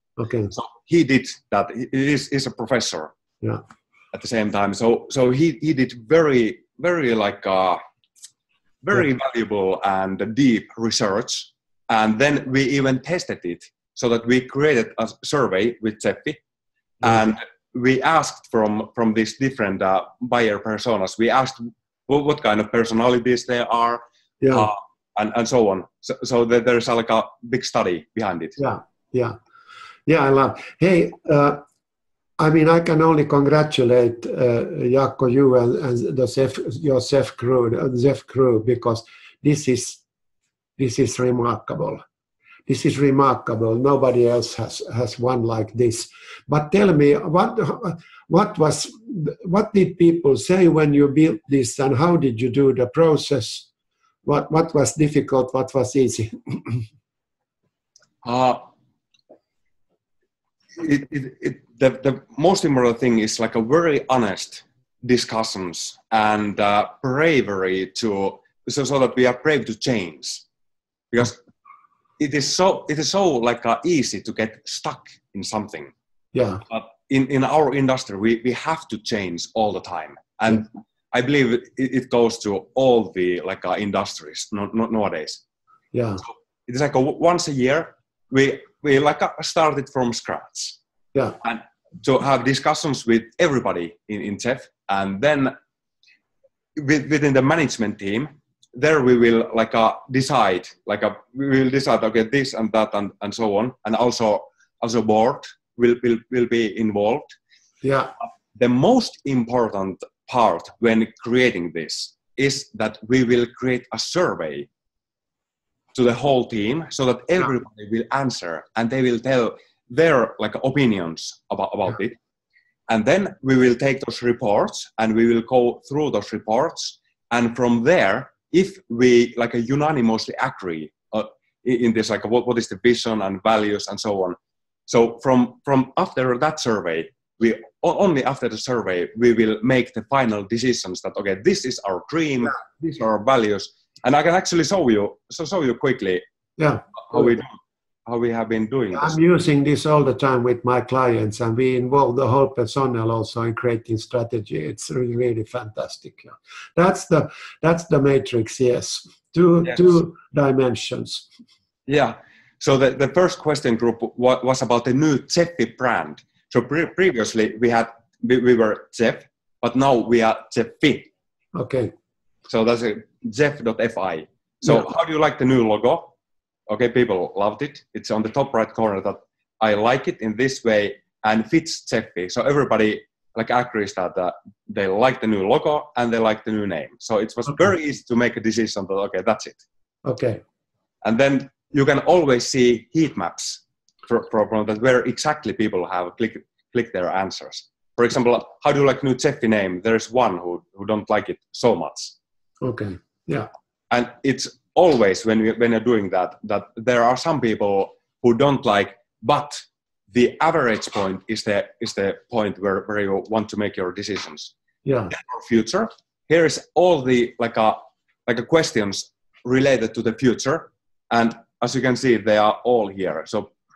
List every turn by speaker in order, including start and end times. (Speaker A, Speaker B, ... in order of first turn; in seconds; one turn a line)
Speaker A: 0.2-0.5
Speaker B: 0.5-3.1
Speaker B: 4.1-7.8
Speaker B: 8.8-16.4
Speaker B: 17.0-28.6
Speaker A: 17.0-17.3
Speaker A: 24.4-24.7
Speaker A: 28.6-29.4
Speaker A: 30.1-31.6
Speaker A: 32.4-40.0
Speaker A: 40.8-42.0
Speaker A: 42.7-53.7
Speaker A: 54.2-56.9
Speaker B: 58.2-58.6
Speaker B: 60.8-70.5
Speaker B: 71.1-71.4
Speaker B: 72.2-75.9
Speaker A: 76.3-76.6
Speaker B: 76.7-85.4
Speaker A: 85.9-86.2
Speaker B: 86.2-90.8
Speaker B: 91.4-95.5
Speaker B: 96.8-107.3
Speaker A: 107.8-108.1
Speaker B: 108.5-114.7
Speaker B: 116.0-122.2
Speaker B: 122.9-134.4
Speaker B: 134.9-146.2
Speaker A: 146.6-147.4
Speaker B: 147.0-149.2
Speaker A: 148.9-161.3
Speaker B: 161.9-171.1
Speaker A: 171.6-171.9
Speaker B: 172.5-176.1
Speaker B: 176.7-189.6
Speaker A: 190.1-190.4
Speaker B: 191.0-202.2
Speaker A: 202.6-203.5
Speaker B: 203.9-214.5
Speaker A: 214.8-215.1
Speaker B: 215.1-223.5